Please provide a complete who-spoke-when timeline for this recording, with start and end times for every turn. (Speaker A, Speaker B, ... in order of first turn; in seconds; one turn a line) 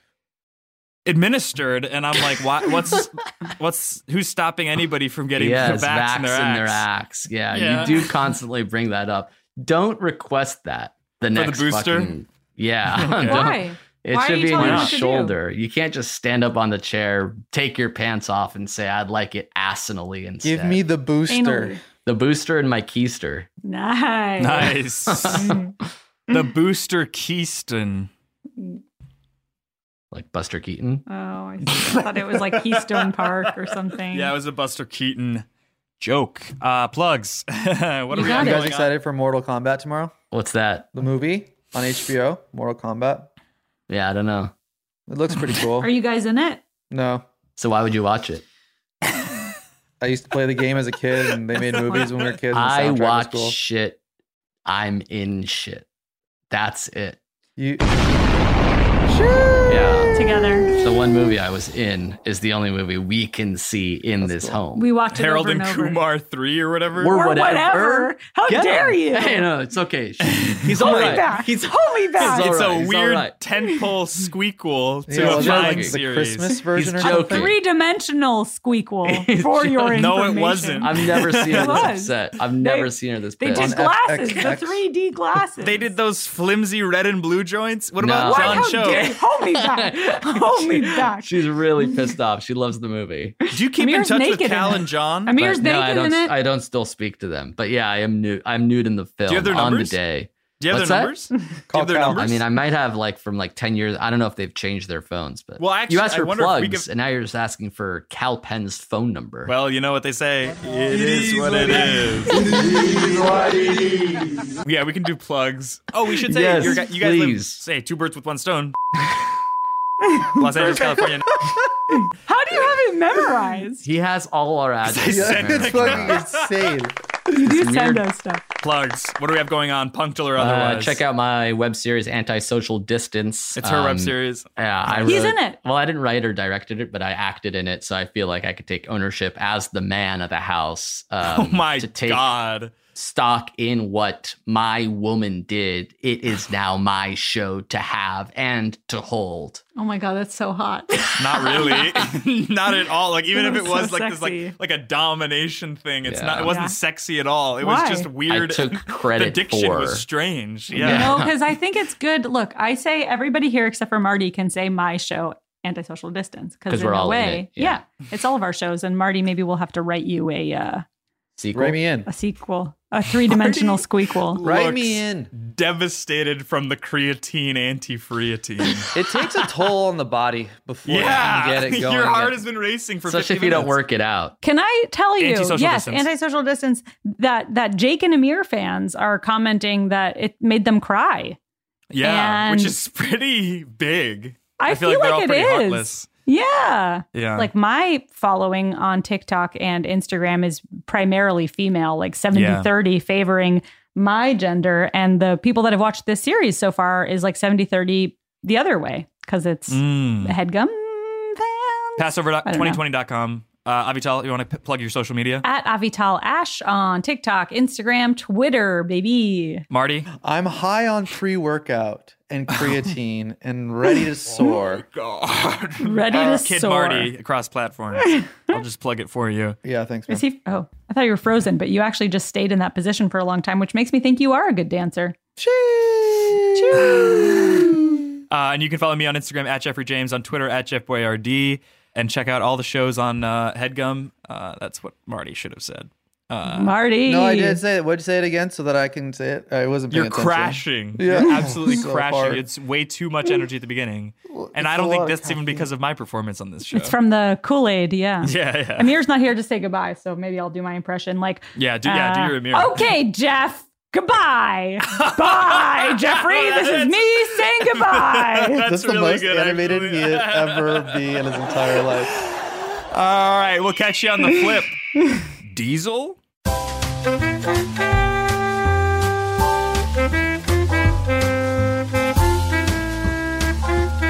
Speaker A: 1.1-6.8
Speaker B: 5.3-20.8
Speaker A: 7.5-8.1
Speaker A: 11.3-12.1
Speaker A: 12.9-13.4
Speaker C: 13.2-15.3
Speaker A: 14.5-14.9
Speaker D: 20.4-21.8
Speaker C: 21.3-21.8
Speaker B: 22.0-23.5
Speaker C: 23.6-25.7
Speaker A: 24.4-25.4
Speaker B: 25.1-25.5
Speaker A: 26.3-28.1
Speaker B: 30.1-31.0
Speaker C: 31.1-34.3
Speaker A: 32.4-33.5
Speaker A: 34.1-35.4
Speaker A: 36.0-38.9
Speaker C: 38.1-38.7
Speaker D: 38.1-40.1
Speaker B: 40.3-40.9
Speaker D: 40.9-43.3
Speaker B: 43.9-44.5
Speaker D: 45.1-45.9
Speaker C: 45.8-46.6
Speaker D: 46.9-47.2
Speaker B: 47.6-48.4
Speaker D: 50.0-53.5
Speaker B: 52.5-54.0
Speaker B: 54.6-55.9
Speaker B: 56.5-57.2
Speaker D: 57.6-57.8
Speaker C: 59.1-60.7
Speaker B: 59.7-64.8
Speaker D: 64.2-64.6
Speaker C: 64.7-66.0
Speaker A: 65.1-67.2
Speaker B: 67.0-73.3
Speaker C: 67.1-69.5
Speaker A: 70.4-71.2
Speaker C: 70.8-72.5
Speaker A: 72.2-76.6
Speaker D: 75.1-77.5
Speaker B: 75.1-76.0
Speaker B: 76.7-77.6
Speaker C: 77.0-85.9
Speaker B: 79.0-80.1
Speaker A: 79.9-81.9
Speaker B: 80.8-83.8
Speaker D: 83.5-84.8
Speaker A: 85.6-89.1
Speaker B: 88.0-93.4
Speaker C: 88.2-91.3
Speaker A: 93.5-95.3
Speaker C: 93.7-96.3
Speaker B: 95.4-101.1
Speaker A: 99.3-100.0
Speaker A: 100.6-102.4
Speaker D: 101.7-102.2
Speaker B: 102.2-109.5
Speaker A: 105.6-106.9
Speaker A: 109.5-112.5
Speaker B: 112.5-113.4
Speaker A: 114.6-118.7
Speaker B: 116.2-117.6
Speaker C: 120.0-121.1
Speaker A: 120.3-121.5
Speaker C: 121.9-123.9
Speaker B: 123.8-126.2
Speaker A: 124.8-126.5
Speaker D: 125.0-126.9
Speaker B: 127.3-128.0
Speaker C: 127.3-128.4
Speaker A: 128.6-131.0
Speaker B: 130.3-142.3
Speaker A: 133.6-135.3
Speaker C: 135.0-135.6
Speaker A: 141.2-142.7
Speaker B: 142.9-149.6
Speaker C: 149.8-152.0
Speaker A: 151.2-161.2
Speaker C: 153.3-154.5
Speaker B: 156.0-156.5
Speaker C: 156.4-156.8
Speaker C: 157.6-158.1
Speaker B: 158.3-160.0
Speaker B: 160.7-161.4
Speaker C: 160.8-170.8
Speaker B: 166.7-167.8
Speaker B: 171.4-171.8
Speaker D: 171.5-172.1
Speaker C: 172.1-174.4
Speaker A: 173.4-173.8
Speaker A: 174.3-178.9
Speaker D: 174.4-175.3
Speaker D: 178.9-182.4
Speaker A: 180.8-183.8
Speaker B: 183.0-184.3
Speaker C: 184.4-191.4
Speaker A: 185.2-186.1
Speaker A: 191.9-196.1
Speaker C: 192.0-192.8
Speaker C: 194.6-212.8
Speaker A: 197.1-197.5
Speaker A: 202.3-202.7
Speaker A: 209.7-210.3
Speaker A: 212.0-215.4
Speaker C: 215.4-219.7
Speaker A: 219.7-220.1
Speaker D: 220.2-224.8
Speaker A: 224.6-229.6
Speaker C: 225.8-227.1
Speaker C: 228.0-228.4
Speaker D: 229.6-230.2
Speaker C: 230.1-235.2
Speaker D: 235.4-238.1
Speaker C: 236.5-237.6
Speaker A: 236.8-237.6
Speaker A: 238.3-246.7
Speaker C: 246.5-247.6
Speaker D: 247.1-252.4
Speaker A: 249.9-256.9
Speaker D: 254.3-255.7
Speaker C: 256.7-268.6
Speaker A: 258.2-258.9
Speaker A: 261.5-262.9
Speaker A: 264.9-274.8
Speaker D: 268.6-272.1
Speaker A: 275.4-276.2